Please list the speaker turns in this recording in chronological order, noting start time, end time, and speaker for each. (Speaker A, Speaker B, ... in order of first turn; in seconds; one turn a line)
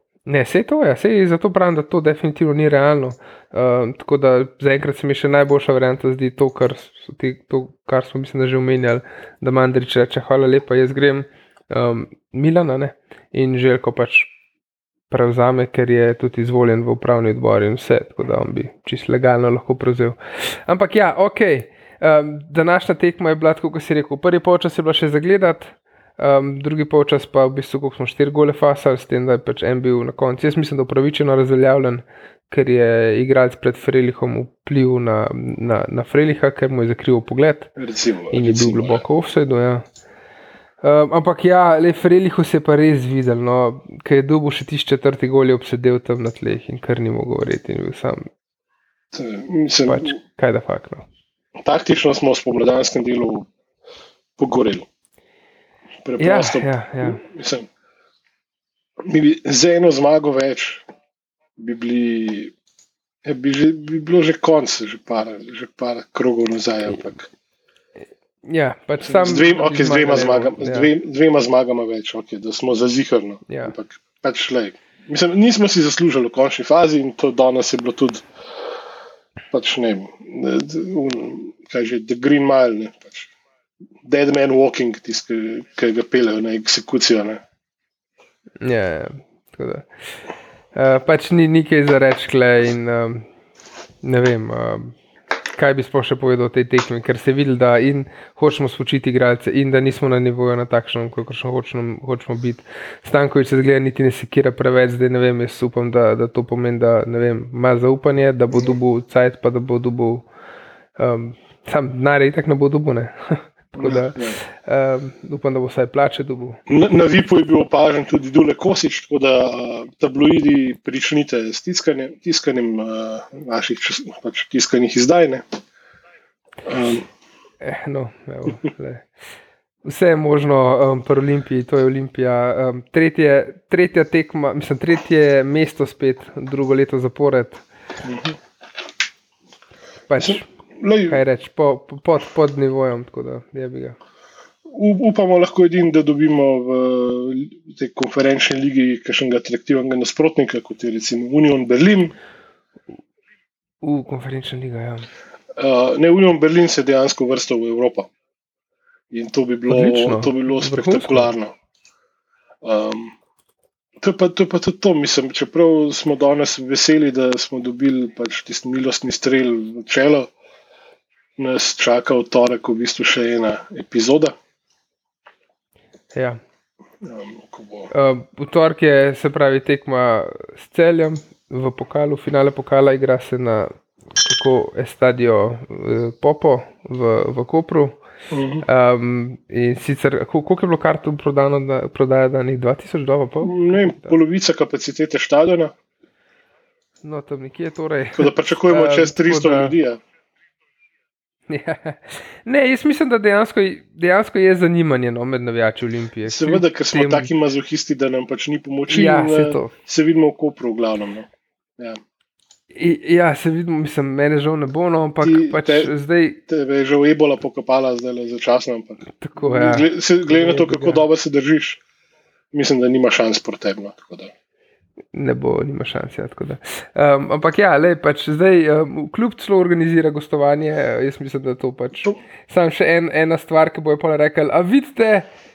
Speaker A: 0.3-14.3
Speaker A: 15.1-37.7
Speaker B: 37.8-39.0
Speaker A: 38.3-39.8
Speaker A: 40.8-48.3
Speaker B: 49.1-50.2
Speaker A: 49.9-51.0
Speaker B: 51.6-53.5
Speaker B: 54.4-54.9
Speaker B: 56.0-57.7
Speaker A: 56.2-57.2
Speaker B: 59.0-60.8
Speaker B: 61.6-62.5
Speaker B: 63.2-67.3
Speaker A: 68.5-70.9
Speaker B: 69.0-78.2
Speaker A: 73.5-73.7
Speaker B: 79.5-83.3
Speaker B: 84.0-87.4
Speaker A: 88.6-89.9
Speaker A: 90.7-93.3
Speaker A: 94.0-95.0
Speaker A: 95.6-110.3
Speaker A: 111.0-116.6
Speaker B: 113.8-114.4
Speaker B: 116.7-125.4
Speaker B: 126.7-127.0
Speaker A: 127.6-129.1
Speaker A: 129.8-137.6
Speaker B: 138.0-138.4
Speaker A: 140.1-140.5
Speaker B: 140.2-141.2
Speaker A: 141.1-144.0
Speaker B: 144.7-152.1
Speaker A: 153.8-155.1
Speaker B: 155.6-158.1
Speaker B: 159.1-161.5
Speaker A: 159.7-161.3
Speaker B: 162.6-163.1
Speaker B: 164.0-170.3
Speaker B: 171.4-174.3
Speaker B: 177.0-177.9
Speaker A: 177.9-188.0
Speaker B: 188.3-188.6
Speaker A: 188.6-194.2
Speaker B: 193.4-195.7
Speaker A: 197.0-199.7
Speaker B: 198.2-200.0
Speaker A: 201.5-207.3
Speaker B: 206.2-212.0
Speaker A: 208.9-209.7
Speaker A: 212.7-216.4
Speaker B: 215.2-215.9
Speaker B: 216.4-221.8
Speaker A: 219.2-221.0
Speaker B: 222.5-224.3
Speaker A: 225.1-235.3